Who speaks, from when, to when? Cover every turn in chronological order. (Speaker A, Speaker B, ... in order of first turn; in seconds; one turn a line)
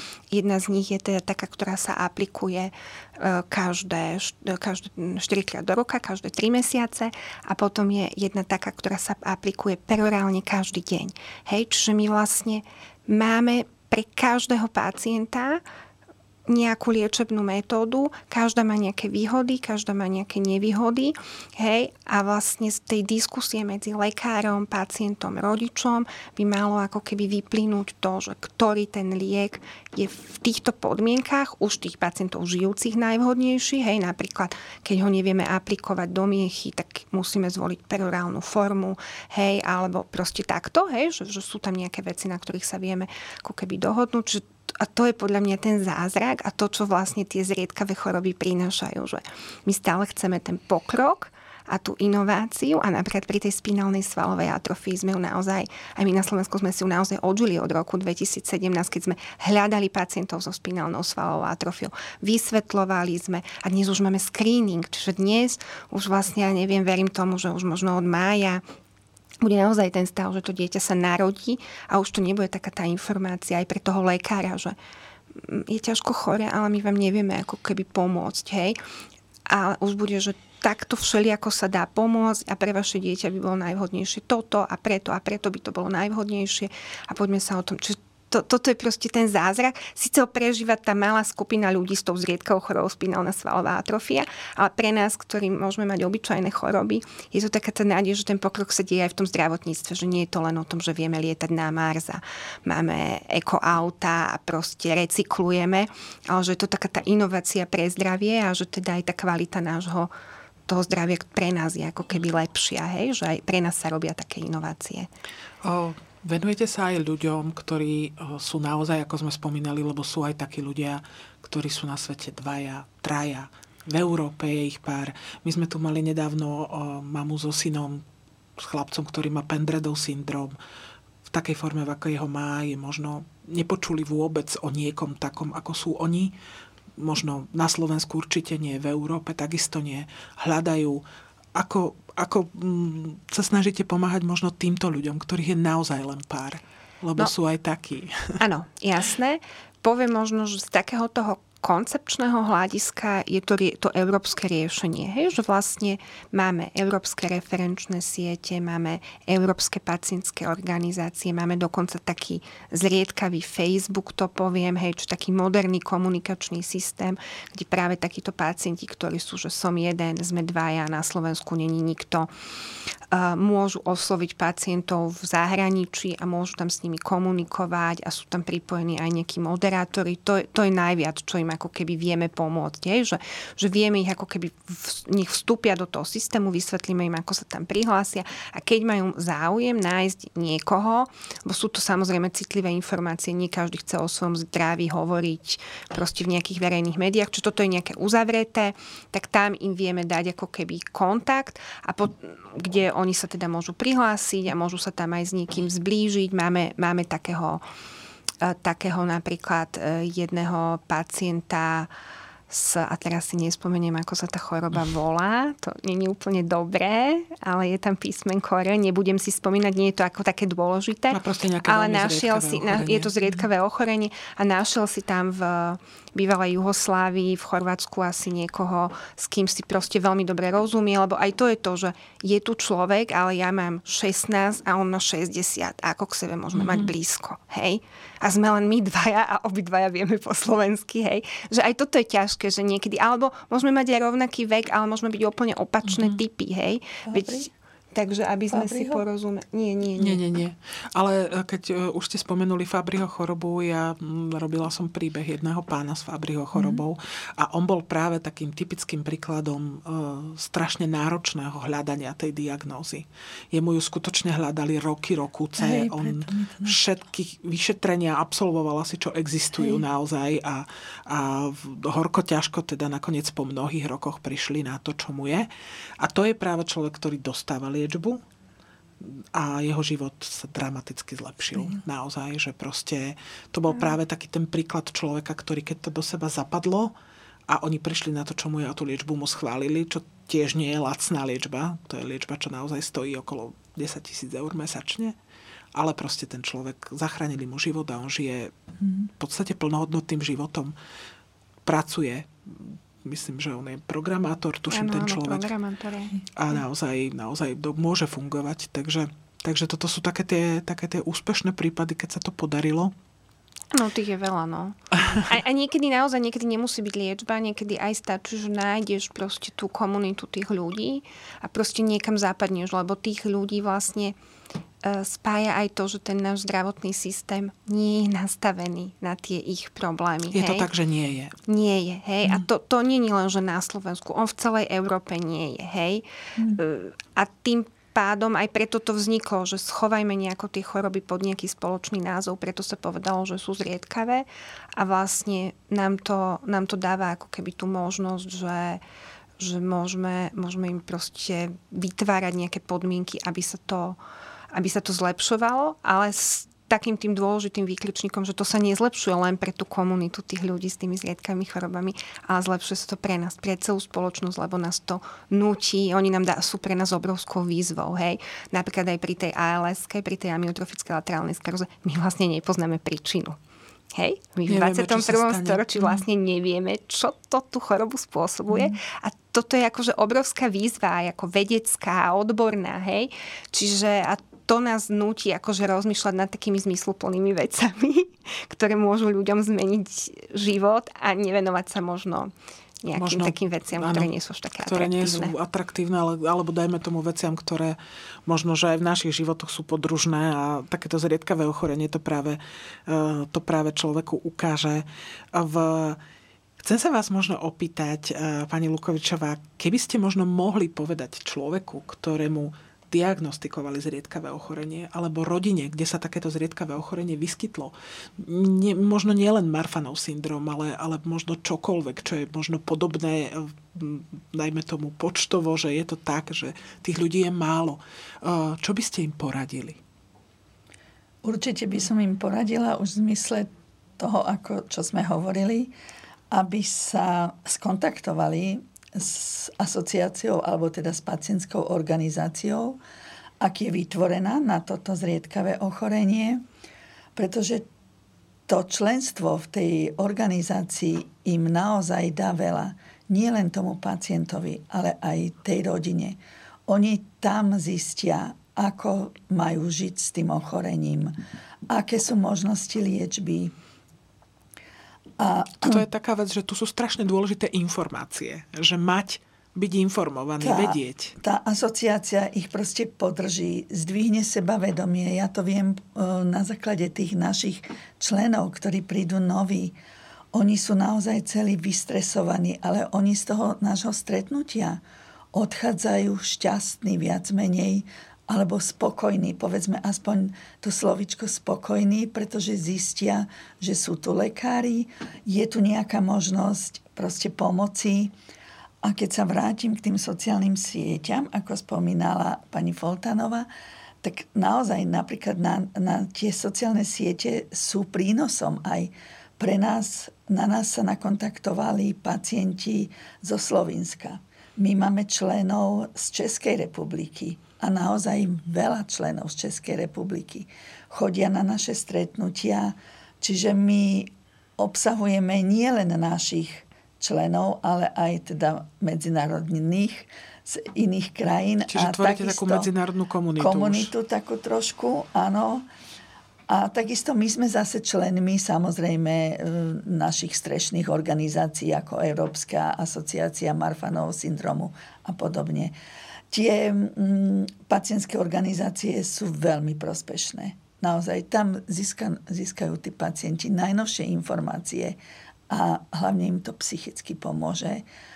Speaker A: 0.3-15.6
Speaker A: 16.5-68.6
Speaker A: 69.4-74.8
Speaker A: 75.3-78.8
Speaker A: 79.5-110.1
Speaker A: 110.7-115.1
Speaker B: 115.6-128.0
Speaker B: 128.6-130.6
Speaker B: 131.3-136.3
Speaker B: 137.0-141.0
Speaker B: 141.6-148.4
Speaker A: 148.4-172.3
Speaker A: 173.1-207.6
Speaker A: 208.4-211.9
Speaker A: 212.5-250.2
Speaker B: 221.1-223.4
Speaker B: 236.6-236.9
Speaker C: 247.1-247.5
Speaker C: 248.5-249.0
Speaker B: 250.0-278.2
Speaker C: 256.5-256.8
Speaker C: 265.6-266.8
Speaker B: 279.0-286.9
Speaker B: 287.5-295.1
Speaker B: 295.7-298.5
Speaker B: 299.2-300.7
Speaker B: 301.6-305.5
Speaker A: 304.7-306.2
Speaker B: 306.3-312.9
Speaker A: 313.7-324.2
Speaker A: 324.8-330.7
Speaker B: 330.3-331.4
Speaker A: 331.5-344.3
Speaker A: 344.8-348.8
Speaker A: 349.4-354.0
Speaker A: 354.5-373.4
Speaker A: 373.9-392.3
Speaker B: 374.5-376.0
Speaker A: 392.8-395.4
Speaker B: 392.9-406.0
Speaker B: 406.6-429.8
Speaker C: 431.2-435.7
Speaker C: 436.3-442.8
Speaker C: 443.4-446.4
Speaker C: 447.2-447.7
Speaker C: 448.5-461.2
Speaker C: 461.7-463.6
Speaker C: 465.2-465.9
Speaker B: 465.6-471.2
Speaker C: 470.4-479.8
Speaker C: 480.3-484.8
Speaker C: 485.3-498.1
Speaker C: 498.8-503.5
Speaker C: 504.0-532.7
Speaker B: 531.7-533.9
Speaker C: 533.4-535.7
Speaker C: 536.5-545.7
Speaker C: 546.3-555.0
Speaker C: 555.5-557.8